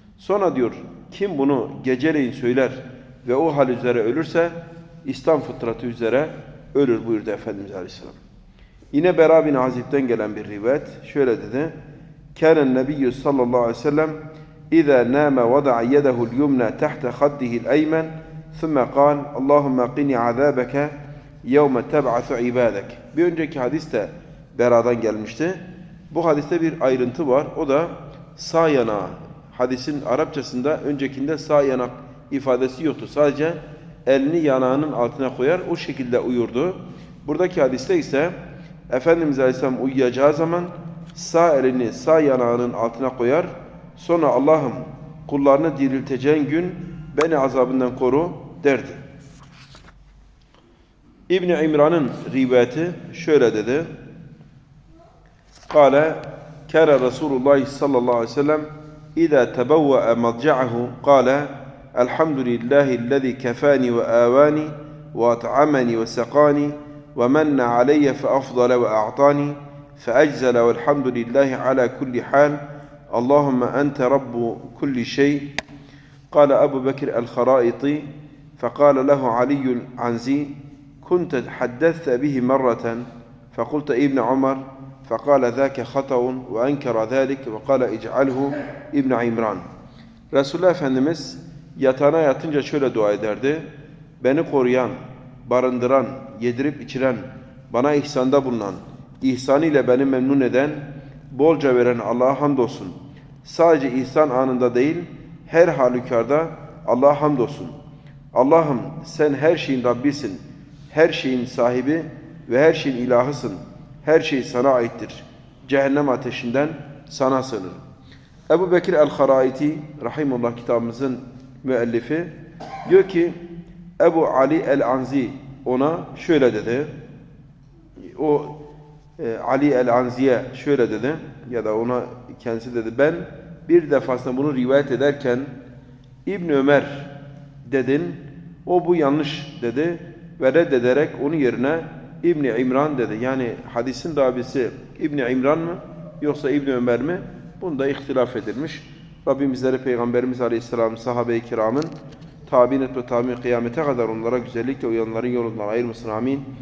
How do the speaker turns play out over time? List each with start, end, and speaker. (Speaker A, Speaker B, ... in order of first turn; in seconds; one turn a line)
Speaker A: 0.2-8.2
Speaker A: 8.9-11.7
Speaker A: 12.3-14.2
Speaker A: 14.7-38.3
Speaker A: 38.9-49.0
Speaker A: 51.3-53.9
Speaker A: 55.7-75.5
Speaker A: 76.3-89.7
Speaker A: 90.3-93.7
Speaker A: 94.2-107.7
Speaker A: 108.3-117.8
Speaker A: 118.5-122.3
Speaker A: 122.8-123.3
Speaker A: 124.0-126.9
Speaker A: 128.0-128.6
Speaker A: 129.2-135.5
Speaker A: 136.2-137.1
Speaker A: 137.7-151.9
Speaker A: 152.5-156.4